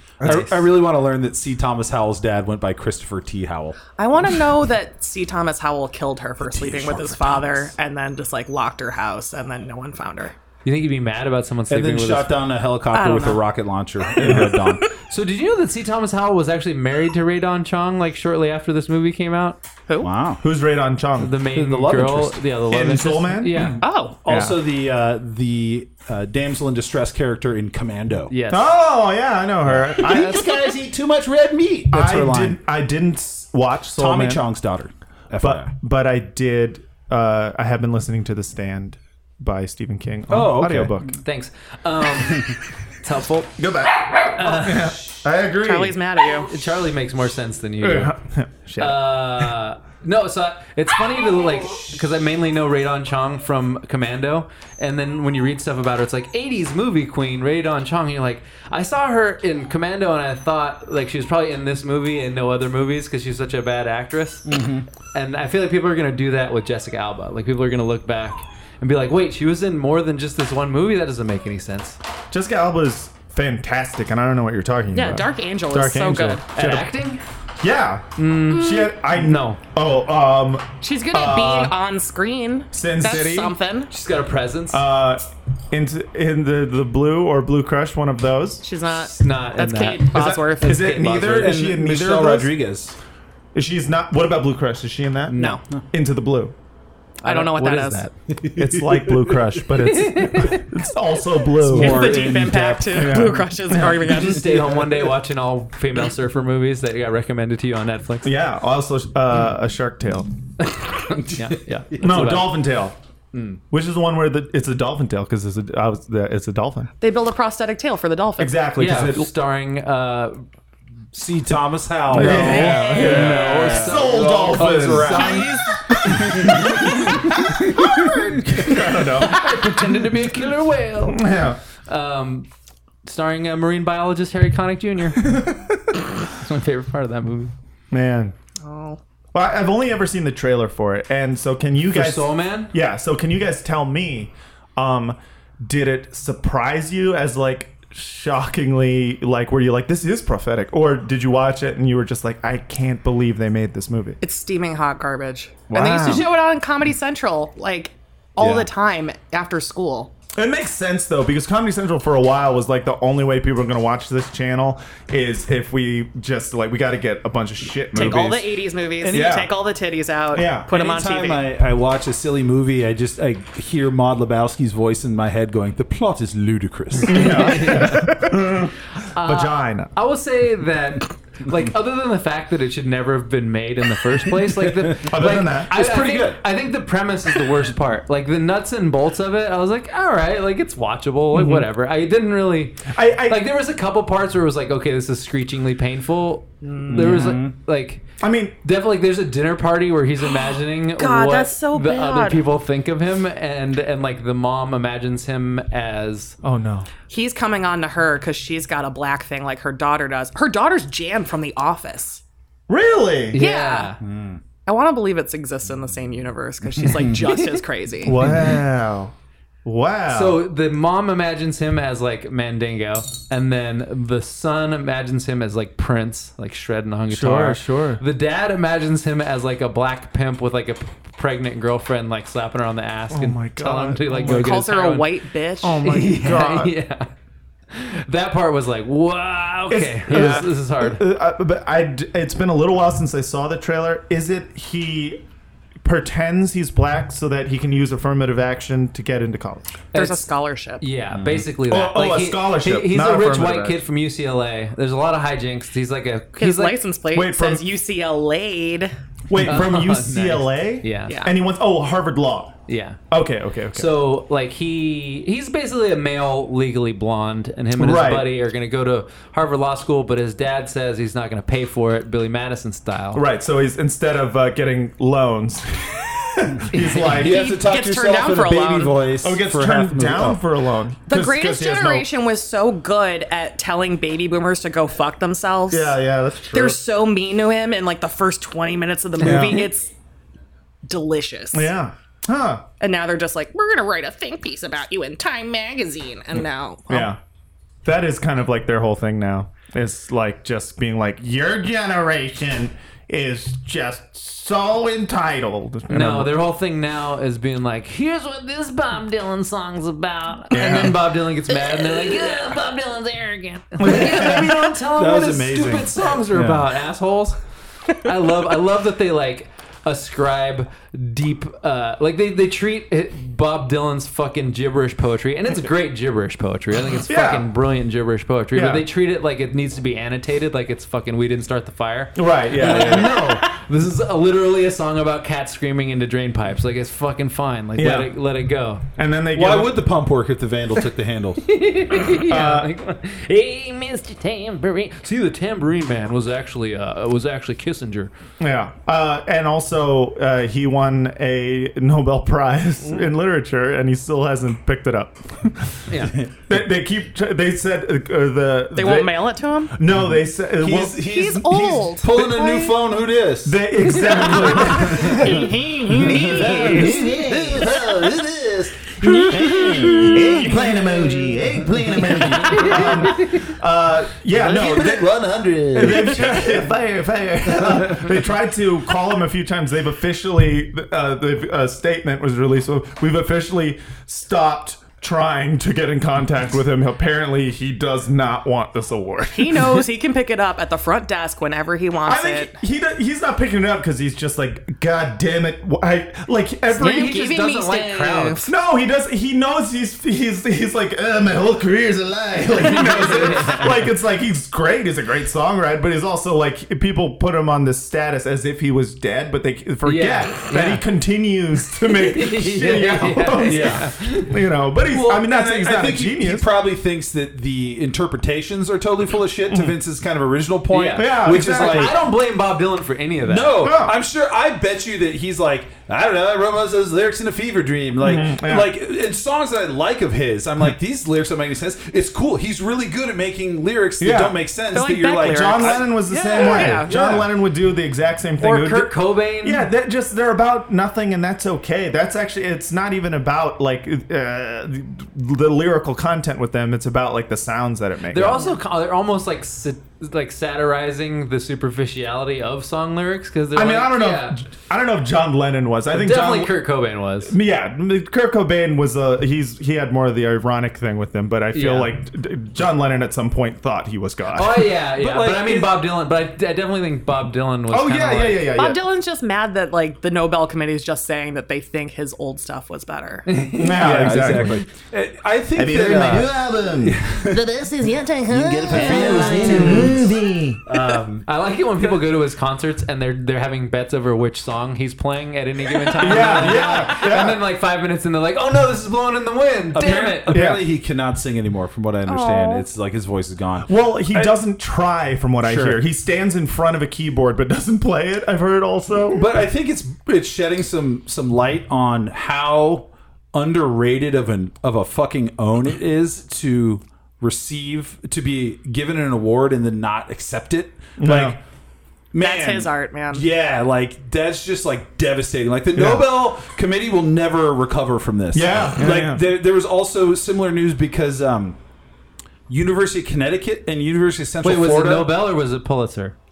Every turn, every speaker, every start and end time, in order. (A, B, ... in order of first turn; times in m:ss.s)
0:00.2-0:00.5 A
0:00.2-0:03.8 B
0:00.2-0:00.6 C
0:04.0-0:10.3 D
0:06.4-0:07.7 B
0:10.6-0:12.3 C
0:11.7-0:14.8 B
0:12.9-0:13.4 D
0:14.2-0:14.6 A
0:14.2-0:14.9 D
0:15.1-0:19.6 C
0:20.0-0:20.4 B
0:20.4-0:21.3 A
0:21.2-0:23.8 C
0:21.5-0:22.4 B
0:22.7-0:24.6 A
0:23.8-0:24.2 D
0:24.2-0:28.3 B
0:28.3-0:28.7 C
0:28.5-0:30.6 A
0:29.6-0:32.6 B
0:31.9-0:34.4 A
0:34.0-0:35.7 B
0:35.4-0:41.2 A
0:40.3-0:41.0 B
0:41.2-0:43.5 C
0:43.6-0:46.0 A
0:44.3-0:45.0 C
0:45.6-0:46.5 D
0:46.5-0:48.1 C
0:47.8-0:49.5 A
0:48.8-1:04.4 C
1:04.4-1:04.9 B
1:05.1-1:12.0 C
1:12.3-1:16.9 A
1:14.9-1:16.4 D
1:16.5-1:17.2 C
1:17.6-1:21.7 A
1:18.2-1:19.6 C
1:20.8-1:23.9 D
1:22.7-1:23.6 A
1:23.9-1:24.8 C
1:24.7-1:28.6 A
1:28.6-1:31.1 D
1:29.0-1:31.5 C
1:30.1-1:32.5 A
1:31.0-1:33.0 B
1:33.5-1:36.5 A
1:35.3-1:35.6 C
1:37.2-1:38.1 C
1:37.2-1:38.1 D
1:38.3-1:39.5 B
1:38.6-1:42.3 A
1:39.8-1:40.6 C
1:41.6-1:43.4 B
1:41.7-1:44.5 D
1:42.9-1:44.2 A
1:44.2-1:48.3 C
1:44.4-1:45.1 B
1:48.2-1:50.3 A
1:50.6-1:52.6 C
1:51.1-1:52.3 B
1:52.0-1:53.0 A
1:53.3-1:53.6 C
1:53.7-1:56.9 A
1:57.0-1:58.6 D
1:58.4-1:59.3 A
1:58.8-2:00.4 C
2:01.1-2:05.5 B
2:02.1-2:06.9 A
2:02.2-2:03.8 D
2:02.2-2:07.3 C
2:05.1-2:05.8 D
2:06.4-2:06.7 B
2:07.5-2:09.4 A
2:08.1-2:08.4 B
2:09.2-2:11.3 C
2:11.0-2:11.6 A
2:11.8-2:12.5 C
2:13.0-2:15.3 C
2:15.2-2:15.8 A
2:16.3-2:17.5 C
2:17.9-2:18.3 A
2:18.6-2:19.0 D
2:19.3-2:34.2 A
2:21.9-2:22.7 C
2:34.2-2:40.1 D
2:35.7-2:36.3 A
2:38.4-2:38.6 A
2:40.4-2:48.4 A
2:47.9-2:51.5 D
2:48.0-2:48.3 B
2:49.0-2:49.4 B
2:49.1-2:49.5 A
2:50.3-2:50.7 A
2:50.7-2:58.1 B
2:57.1-2:59.9 A
2:57.1-2:58.1 C
2:59.1-3:18.0 C
3:04.6-3:06.4 B
3:05.1-3:05.7 A
3:11.3-3:11.6 A
3:12.9-3:13.5 A
3:16.6-3:17.2 D
3:16.9-3:17.5 B
3:18.2-3:18.6 A
3:18.6-3:26.4 C
3:21.0-3:22.4 D
3:26.4-3:26.9 A
3:27.1-3:32.2 D
3:32.7-3:33.4 A
3:33.3-3:34.0 C
3:33.4-3:33.9 D
3:34.0-3:34.4 B
3:34.6-3:38.2 D
3:36.8-3:37.3 B
3:38.0-3:39.1 A
3:39.6-3:40.4 A
3:40.1-3:55.1 C
3:47.1-3:48.0 A
3:53.1-3:54.5 A
3:54.2-3:55.9 D
3:55.6-3:56.7 A
3:55.8-3:57.1 C
3:57.7-4:01.0 C
3:59.7-4:05.2 A
4:00.1-4:00.4 D
4:05.8-4:09.8 A
4:09.9-4:10.3 C
4:09.9-4:10.8 D
4:10.8-4:16.8 C
4:11.1-4:11.4 B
4:11.7-4:13.8 A
4:16.4-4:18.9 D
4:17.1-4:17.6 A
4:19.3-4:22.5 A
4:19.4-4:21.2 C
4:21.1-4:21.3 D
4:22.7-4:23.0 C
4:23.1-4:23.9 A
4:23.7-4:33.2 C
4:27.8-4:28.3 A
4:33.1-4:37.5 A
4:36.7-4:37.1 C
4:37.0-4:40.4 B
4:37.2-4:39.0 D
4:39.2-4:42.1 A
4:41.1-4:46.0 D
4:45.7-4:46.8 A
4:46.5-4:49.9 D
4:49.2-4:49.7 A
4:50.8-4:51.7 D
4:51.5-4:52.6 A
4:52.8-4:57.1 D
4:56.9-4:57.2 A
4:57.8-5:06.3 A
5:05.9-5:17.4 C
5:10.5-5:11.1 A
5:13.8-5:14.7 A
5:14.9-5:16.2 B
5:16.3-5:16.6 A
5:17.9-5:38.8 C
5:27.1-5:27.5 A
5:28.5-5:28.9 A
5:32.1-5:33.3 A
5:37.8-5:38.1 A
5:39.0-5:39.8 A
5:39.3-5:41.4 B
5:41.4-5:48.1 C
5:42.2-5:42.7 A
5:48.4-5:55.9 A
5:55.9-5:56.1 C
5:56.5-6:01.2 A
5:58.7-5:59.7 D
6:00.0-6:03.6 B
6:00.9-6:02.8 D
6:03.4-6:05.5 A
6:04.4-6:07.8 D
6:06.0-6:07.6 B
6:06.2-6:08.6 E
6:09.0-6:10.4 D
6:09.3-6:10.3 B
6:09.4-6:12.5 E
6:12.1-6:29.8 A
6:12.2-6:12.6 B
6:14.5-6:16.7 E
6:29.3-6:32.5 D
6:32.0-6:37.2 A
6:36.7-6:38.4 C
6:36.8-6:38.5 D
6:38.4-6:56.5 A
6:42.6-6:43.8 C
6:49.8-6:50.8 C
6:51.8-6:54.3 C
6:53.5-6:53.8 B
6:54.9-7:02.0 B
6:59.5-6:59.8 A
7:00.7-7:03.7 C
7:00.9-7:02.0 A
7:03.2-7:17.3 B
7:03.6-7:04.0 A
7:08.0-7:08.8 A
7:14.0-7:14.4 A
7:14.7-7:16.9 D
7:15.2-7:28.4 A
7:18.4-7:19.7 C
7:28.1-7:34.4 C
7:33.5-7:36.6 A
7:35.9-7:37.3 C
7:37.2-7:44.7 A
7:41.5-7:41.9 C
7:44.3-7:48.5 C
7:44.9-7:45.8 B
7:47.7-7:48.8 A
7:48.6-7:53.2 D
7:53.2-7:54.3 C
7:53.5-7:54.6 A
7:53.7-7:57.4 B
7:55.8-7:56.3 A
7:57.3-7:59.5 F
7:58.3-8:00.3 E
7:58.7-8:00.1 B
7:58.8-8:00.0 A
8:00.6-8:01.3 B
8:01.2-8:10.4 C
8:06.0-8:07.4 A
8:09.7-8:14.4 B
8:10.3-8:10.6 A
8:12.0-8:12.7 D
8:13.6-8:19.4 A
8:15.4-8:15.8 B
8:19.1-8:31.4 B
8:31.0-8:31.4 A
8:32.1-8:41.6 B
8:32.2-8:33.2 D
8:35.7-8:36.3 A
8:38.3-8:39.3 A
8:42.5-8:45.2 B
8:44.4-8:46.1 C